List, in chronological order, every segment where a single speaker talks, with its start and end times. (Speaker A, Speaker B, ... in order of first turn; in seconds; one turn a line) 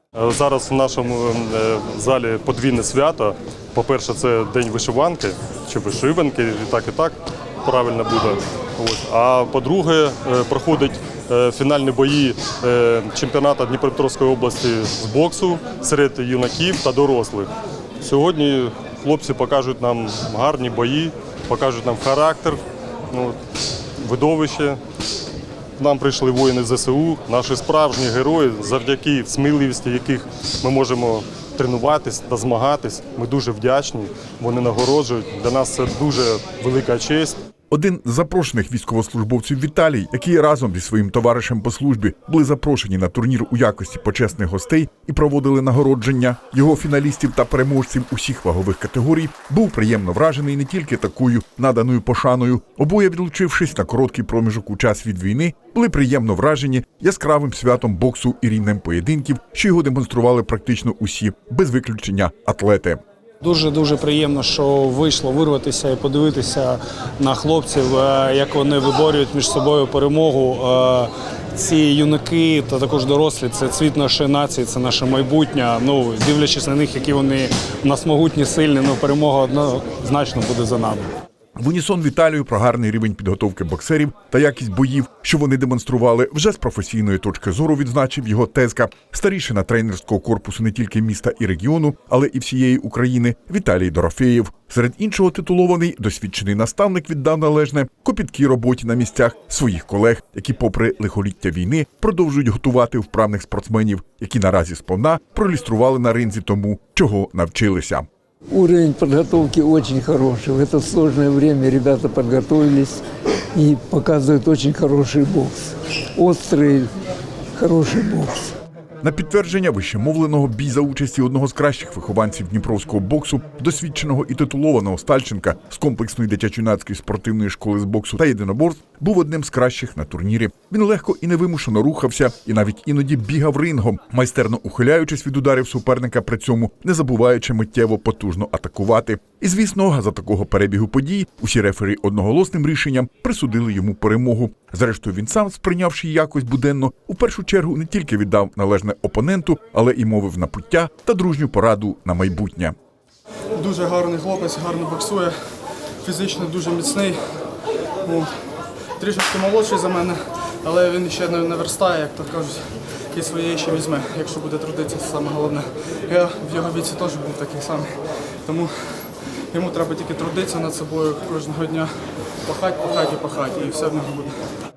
Speaker A: 0.2-17.5
Speaker A: 18.0-23.4
Speaker A: 24.0-24.8
Speaker A: 25.8-37.4
Speaker B: 37.7-63.0
Speaker C: 63.4-81.1
Speaker B: 81.6-108.1
Speaker D: 108.5-113.0
Speaker D: 113.5-116.9
Speaker D: 117.6-118.5
Speaker B: 119.0-152.8
Speaker E: 153.6-157.5
Speaker E: 158.0-174.5